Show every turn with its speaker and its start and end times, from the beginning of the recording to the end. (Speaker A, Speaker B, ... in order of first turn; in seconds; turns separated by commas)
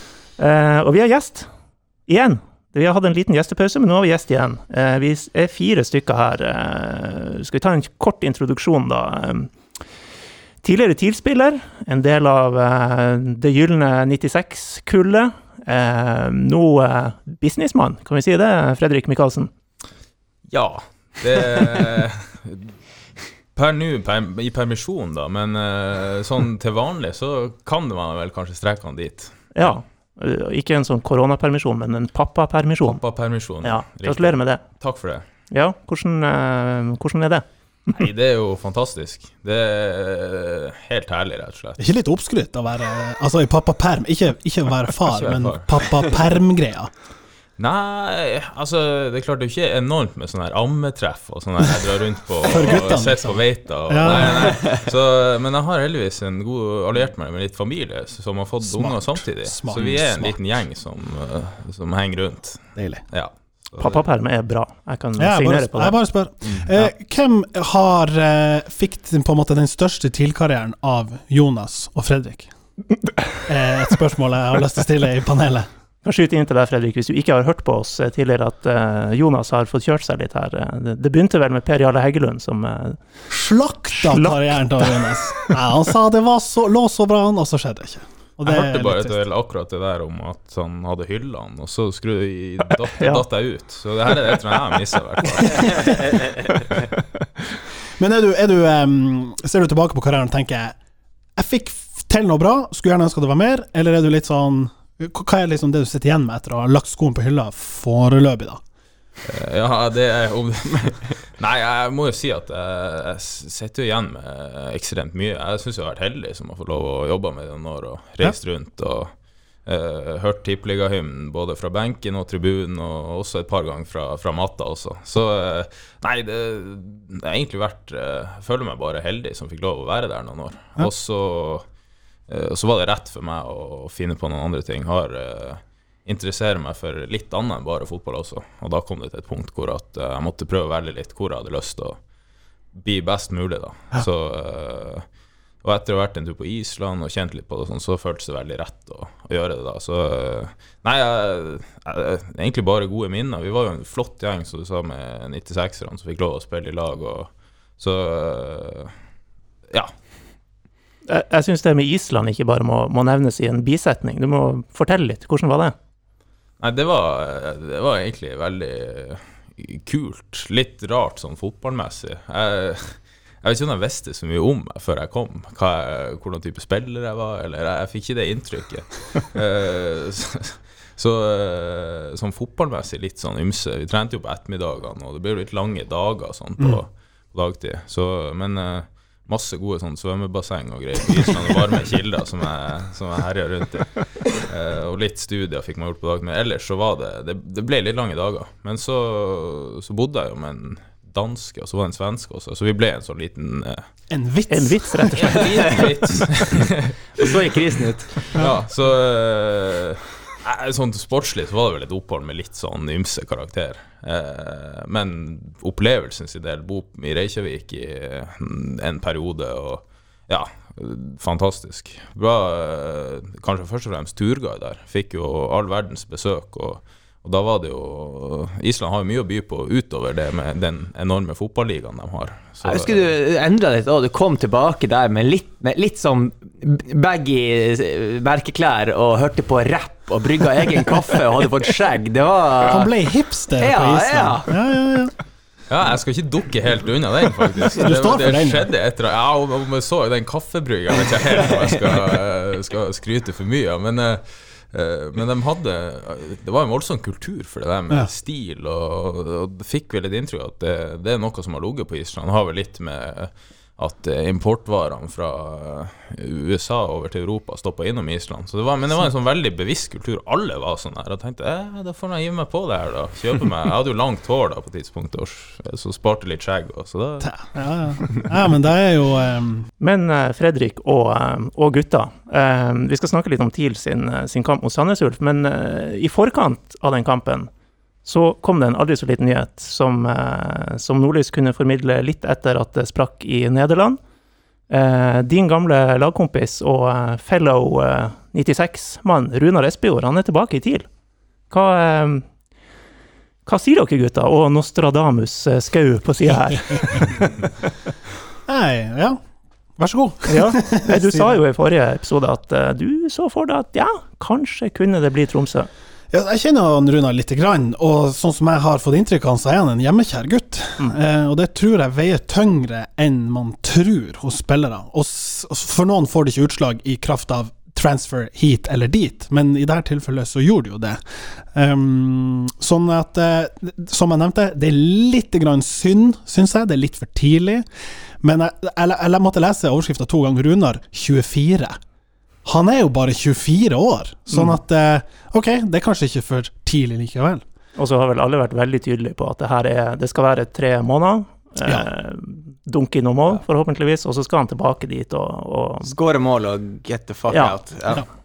Speaker A: 0.4-1.5, Speaker A: 2.1-9.6, Speaker A: 10.6-19.5, Speaker B: 20.5-22.8, Speaker B: 23.6-29.8, Speaker A: 29.5-33.0, Speaker B: 32.8-35.2, Speaker A: 33.6-34.6, Speaker A: 35.5-37.5, Speaker B: 37.9-41.9, Speaker C: 41.8-46.9, Speaker B: 45.1-46.1, Speaker B: 47.6-64.0, Speaker C: 52.4-54.6, Speaker C: 58.6-60.4, Speaker C: 62.8-63.0, Speaker A: 63.8-66.0, Speaker C: 65.2-72.5, Speaker C: 73.5-75.7, Speaker A: 76.0-83.0, Speaker C: 83.3-89.2, Speaker A: 84.0-85.5, Speaker B: 88.4-96.1, Speaker A: 93.0-93.2, Speaker C: 95.4-96.0, Speaker C: 98.0-100.8, Speaker C: 101.4-108.6, Speaker B: 109.2-119.1, Speaker B: 119.7-131.7, Speaker B: 132.3-142.0, Speaker B: 142.7-145.1, Speaker B: 145.6-159.0, Speaker A: 161.1-165.8, Speaker B: 166.6-203.9, Speaker C: 204.1-205.9, Speaker A: 204.5-205.6, Speaker B: 205.1-207.3, Speaker D: 207.2-208.4, Speaker B: 208.3-233.1, Speaker D: 232.7-242.9, Speaker C: 242.7-245.1, Speaker D: 243.6-244.5, Speaker B: 245.7-277.4, Speaker C: 247.7-248.7, Speaker C: 277.2-279.7, Speaker A: 279.8-287.5, Speaker A: 288.1-294.0, Speaker A: 294.7-300.9, Speaker A: 301.5-302.3, Speaker A: 303.5-307.2, Speaker C: 308.5-309.2, Speaker C: 309.8-311.4, Speaker A: 310.3-315.7, Speaker C: 316.1-337.7, Speaker C: 338.2-341.8, Speaker C: 342.4-347.4, Speaker A: 347.8-355.9, Speaker D: 355.8-358.0, Speaker A: 357.3-357.6